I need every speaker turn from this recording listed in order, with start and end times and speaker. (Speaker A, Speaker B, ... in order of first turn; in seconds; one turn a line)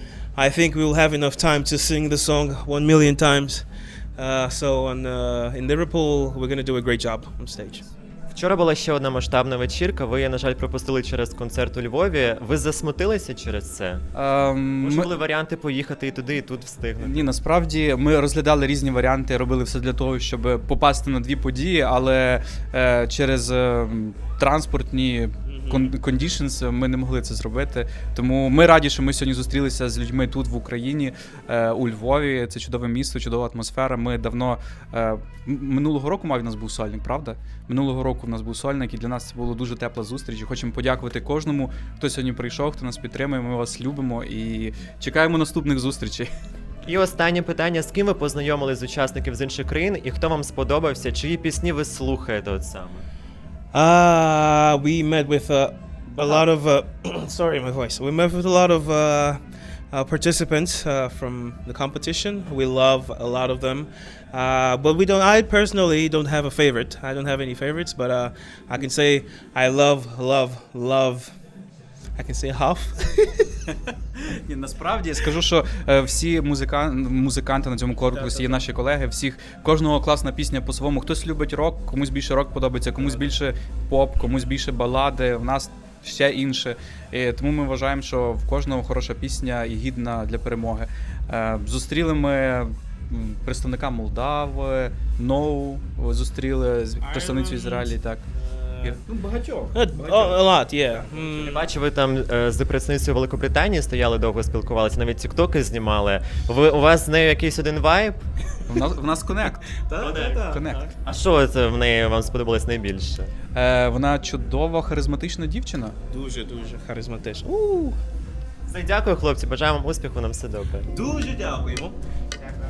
Speaker A: 0.4-3.6
Speaker A: 4.2-7.9
Speaker B: 8.3-14.0
Speaker C: 14.1-15.2
Speaker B: 14.8-17.2
Speaker C: 17.0-46.3
Speaker A: 25.5-25.9
Speaker B: 46.9-53.0
Speaker A: 53.7-71.4
Speaker A: 72.2-73.5
Speaker C: 74.2-98.2
Speaker A: 78.0-78.7
Speaker A: 97.0-99.0
Speaker C: 98.8-100.4
Speaker A: 99.7-101.7
Speaker B: 101.4-108.2
Speaker C: 108.7-109.7
Speaker A: 109.9-110.8
Speaker B: 110.0-110.4
Speaker C: 110.3-110.9
Speaker B: 111.0-113.3
Speaker C: 113.5-116.0
Speaker A: 116.1-118.0
Speaker B: 118.7-120.9
Speaker A: 120.9-122.0